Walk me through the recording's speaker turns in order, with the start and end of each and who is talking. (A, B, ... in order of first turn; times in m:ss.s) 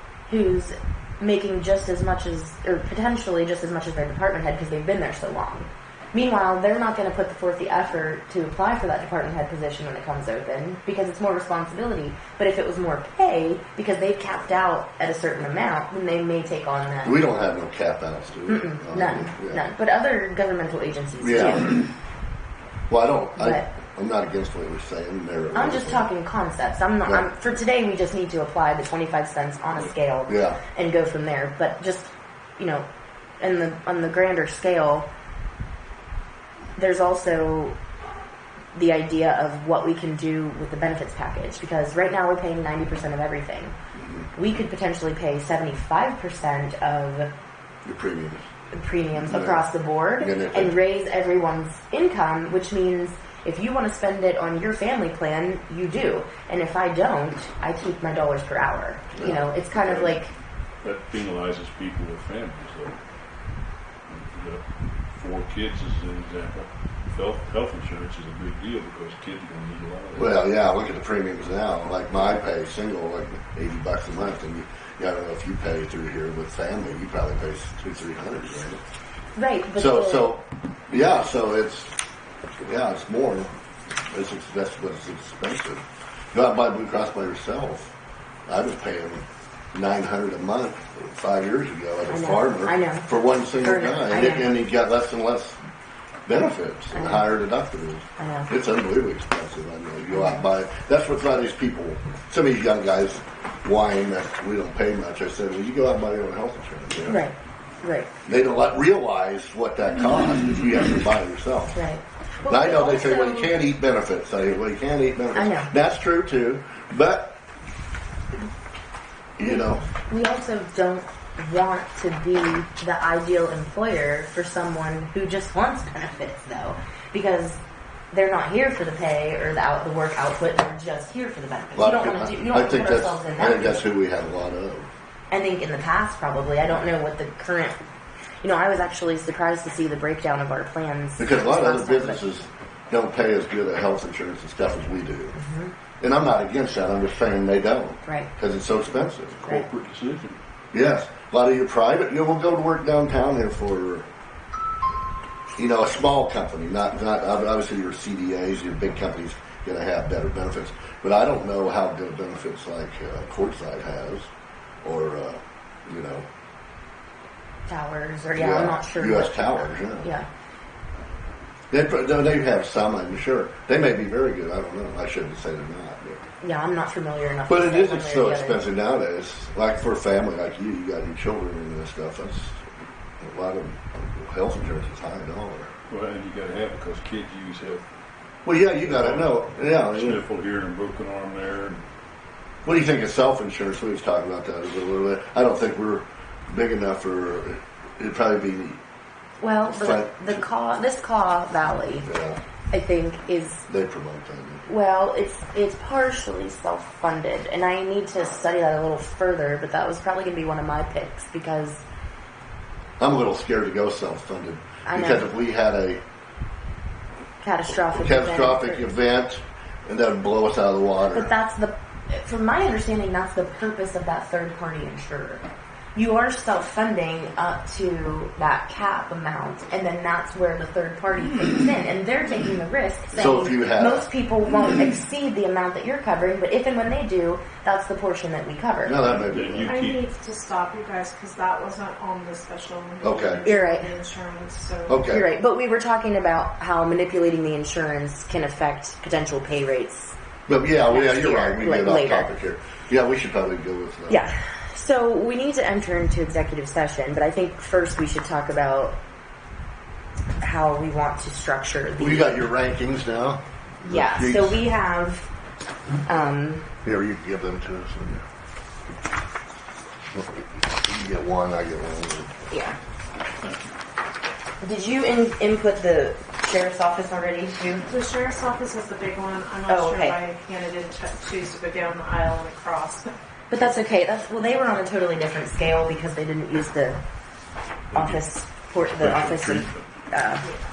0:00.3-0:17.1 A
0:17.0-0:19.6 B
0:18.5-0:21.8 A
0:21.2-0:21.8 B
0:22.9-0:26.1 B
0:23.4-0:23.6 A
0:25.5-0:32.8 A
0:30.3-0:30.6 B
0:33.4-0:35.1 A
0:36.8-0:37.8 A
0:38.7-0:43.8 A
0:44.0-0:44.3 B
0:44.3-0:47.3 A
0:47.8-0:48.4 B
0:48.7-1:00.3 A
0:49.2-0:50.8 B
0:59.2-0:59.4 B
0:59.7-1:00.2 C
1:00.8-1:03.0 C
1:04.1-1:10.4 C
1:10.2-1:18.8 B
1:19.3-1:20.3 A
1:19.8-1:21.9 B
1:22.6-1:23.5 B
1:24.1-1:27.9 B
1:28.5-1:35.6 B
1:32.1-1:34.6 A
1:36.2-1:47.2 B
1:36.9-1:37.3 A
1:38.2-1:38.5 A
1:40.1-1:40.4 A
1:47.0-1:48.1 A
1:48.2-1:51.8 B
1:51.7-1:53.6 A
1:52.5-1:57.4 B
1:55.3-1:55.7 A
1:59.4-1:59.8 B
1:59.4-2:07.6 A
2:08.1-2:13.8 A
2:11.7-2:14.9 B
2:15.3-2:17.8 A
2:18.4-2:22.2 A
2:21.2-2:25.3 B
2:25.3-2:25.7 A
2:26.0-2:29.5 B
2:29.4-2:30.4 C
2:30.7-2:34.1 B
2:35.6-2:44.3 B
2:44.8-2:46.3 B
2:47.7-2:50.3 A
2:48.4-2:50.1 B
2:51.7-2:56.2 B
2:56.4-2:58.6 A
2:57.5-3:02.6 B
3:03.2-3:05.7 B
3:05.9-3:07.8 C
3:08.4-3:10.2 B
3:08.8-3:11.8 C
3:12.6-3:18.8 B
3:19.4-3:22.1 A
3:19.6-3:20.4 B
3:22.0-3:22.4 B
3:22.7-3:23.7 A
3:23.7-3:24.6 B
3:24.6-3:31.8 A
3:33.0-3:36.0 B
3:34.8-3:35.3 A
3:37.4-3:38.8 A
3:37.7-3:41.3 B
3:41.1-3:59.0 A
3:53.1-3:54.1 B
3:58.8-3:59.7 B
3:59.0-4:00.0 C
3:59.6-4:05.0 D
4:03.0-4:03.4 B
4:03.4-4:03.9 A
4:04.9-4:05.2 B
4:05.1-4:10.2 A
4:10.5-4:14.2 B
4:10.8-4:12.3 A
4:14.1-4:19.0 A
4:20.4-4:22.4 A
4:22.0-4:24.6 B
4:23.8-4:25.3 A
4:26.0-4:26.7 A
4:26.8-4:28.2 B
4:30.1-4:32.3 B
4:32.5-4:32.8 A
4:33.4-4:33.7 C
4:34.6-4:37.8 A
4:37.9-4:43.1 D
4:39.7-4:40.2 A
4:43.5-4:47.0 A
4:47.9-4:49.8 C
4:47.9-4:50.5 A